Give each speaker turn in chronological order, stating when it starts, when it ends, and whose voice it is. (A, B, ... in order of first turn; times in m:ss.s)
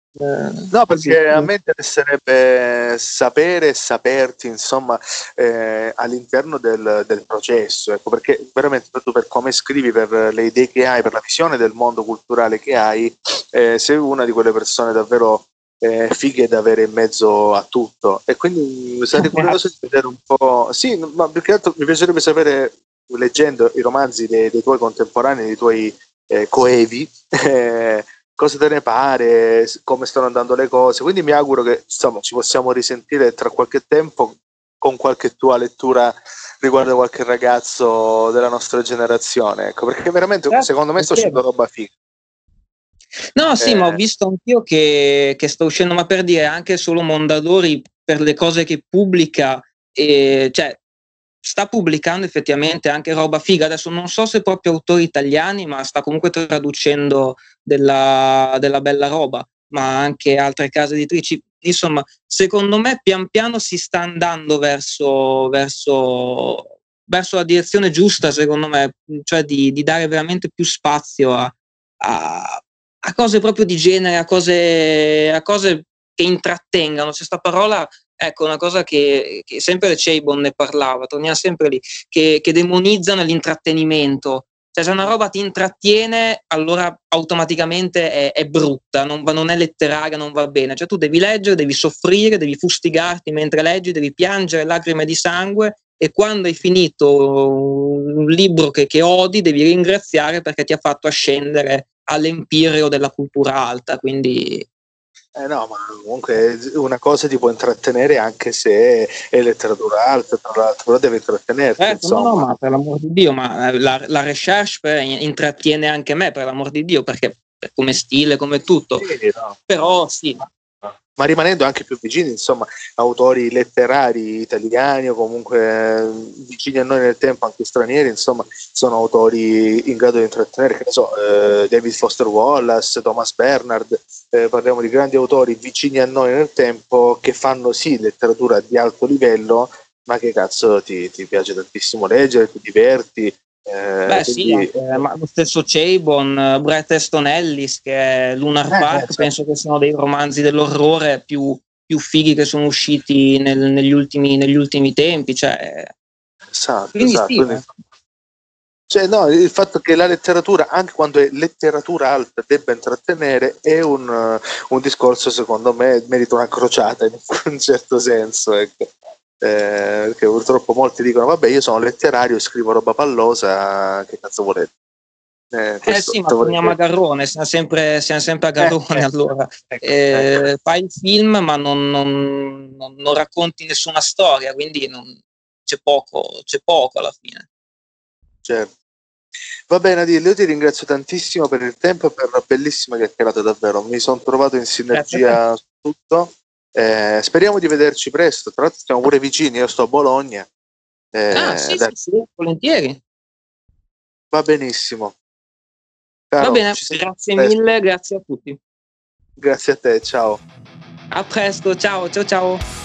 0:00.2-0:01.5 A
0:00.7-0:41.9 B
0:19.2-0:19.6 A
0:40.5-0:41.4 A
0:43.4-0:50.8 A
0:43.6-0:44.0 B
0:51.4-1:44.7 A
1:45.4-1:52.5 B
1:51.8-1:59.1 A
1:59.0-1:59.6 B
1:59.7-2:00.4 A
2:01.2-2:25.1 B
2:24.1-2:35.9 A
2:28.7-2:29.3 B
2:36.5-2:37.7 B
2:37.0-2:37.7 A
2:38.9-2:54.7 B
2:55.5-2:56.8 B
2:55.8-3:07.5 A
2:58.6-2:59.0 B
2:59.7-3:00.4 B
3:08.4-3:08.7 B
3:09.7-3:20.5 B
3:14.9-3:15.4 A
3:21.1-3:21.9 B
3:21.3-3:23.0 A
3:24.3-3:25.2 B
3:26.3-3:27.5 B
3:26.4-3:28.6 A
3:29.4-3:30.4 B
3:31.1-3:32.6 A